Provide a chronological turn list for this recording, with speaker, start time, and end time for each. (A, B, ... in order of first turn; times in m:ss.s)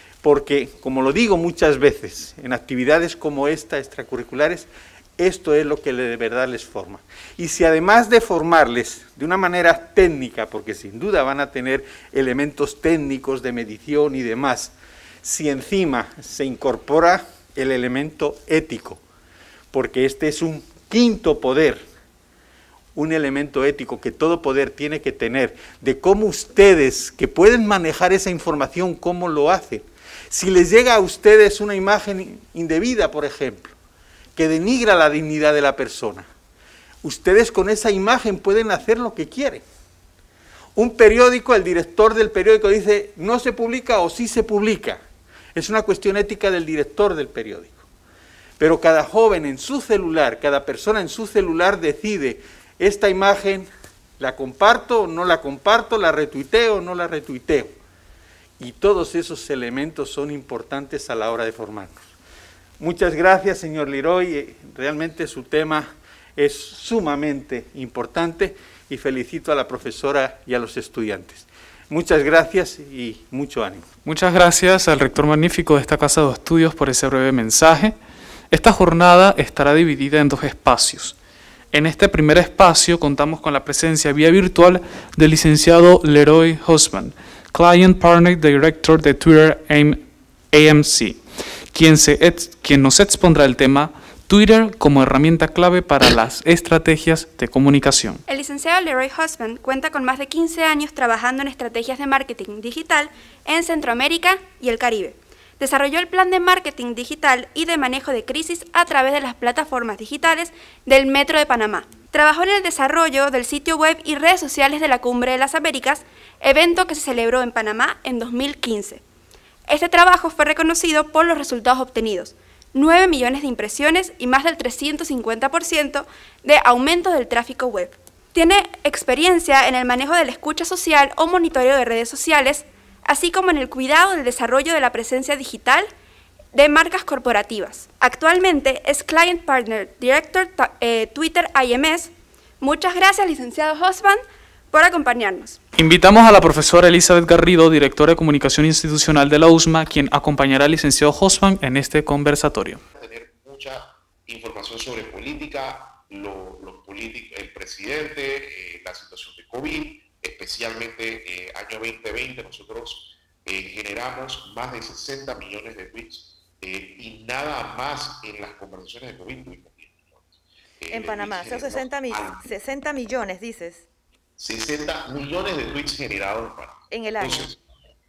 0:00.2-0:14.7 A
0:15.2-0:19.0 A
0:19.7-0:21.8 A
0:22.9-0:33.7 A
0:34.4-0:36.3 A
0:37.0-0:39.6 A
0:40.8-0:45.0 A
0:45.5-0:47.8 A
0:48.6-0:57.8 A
0:58.6-1:02.1 A
1:02.8-1:13.8 A
1:14.0-1:18.0 B
1:18.5-1:21.1 B
1:21.7-1:38.2 B
1:38.3-1:59.0 C
1:59.7-2:15.9 C
2:16.5-2:25.6 C
2:25.8-2:32.8 B
2:32.9-2:52.5 D
2:50.9-2:53.8 E
2:54.4-2:57.6 D
2:56.9-2:57.5 E